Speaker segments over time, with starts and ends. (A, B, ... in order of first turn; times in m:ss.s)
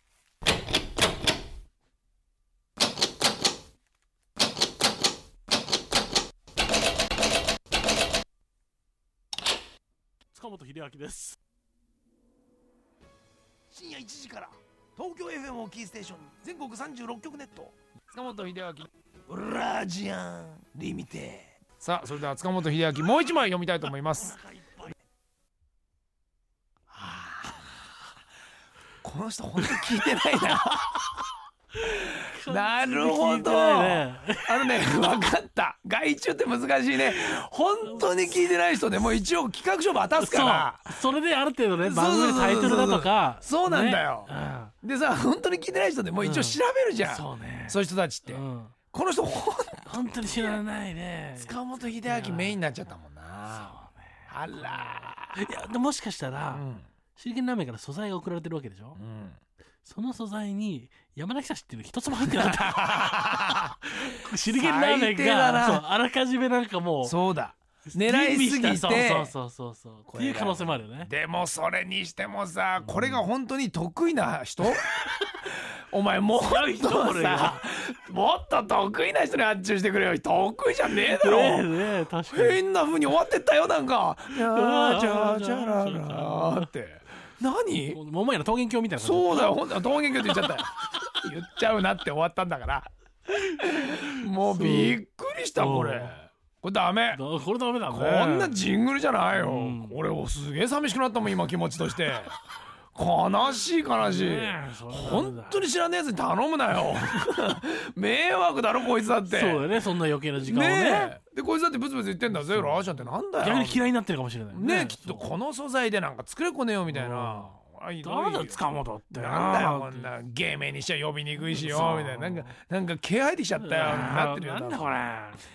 0:10.3-0:11.4 A
0:13.7-0:24.4 B
0:24.4-0:24.9 A
0:26.9-0:27.8 B
0:29.0-0:31.2 B
0:31.8-0:35.0 A
0:32.0-0:40.9 B
0:37.8-0:38.4 A
0:40.2-0:44.7 A
0:41.8-0:50.5 B
0:46.2-0:48.8 A
0:49.8-0:52.6 A
0:51.4-0:55.4 B
0:53.5-0:59.0 A
0:56.5-0:56.9 B
0:59.0-0:59.4 B
0:59.8-1:07.2 A
1:02.3-1:03.8 B
1:04.5-1:05.8 B
1:07.0-1:09.3 B
1:07.9-1:11.1 A
1:10.1-1:21.7 B
1:12.8-1:13.2 A
1:14.6-1:15.3 A
1:16.3-1:17.6 A
1:20.9-1:22.6 A
1:22.3-1:28.0 B
1:24.3-1:26.7 A
1:27.9-1:30.6 A
1:29.0-1:37.2 B
1:33.7-1:35.0 A
1:35.6-1:36.2 A
1:37.1-1:38.6 A
1:37.9-1:42.4 B
1:39.3-1:40.0 A
1:43.0-1:49.8 B
1:44.0-1:45.7 A
1:49.2-1:51.2 A
1:50.4-1:53.8 B
1:52.3-1:55.3 A
1:54.5-2:05.0 B
1:56.9-2:00.1 A
2:01.4-2:02.6 A
2:03.6-2:05.4 A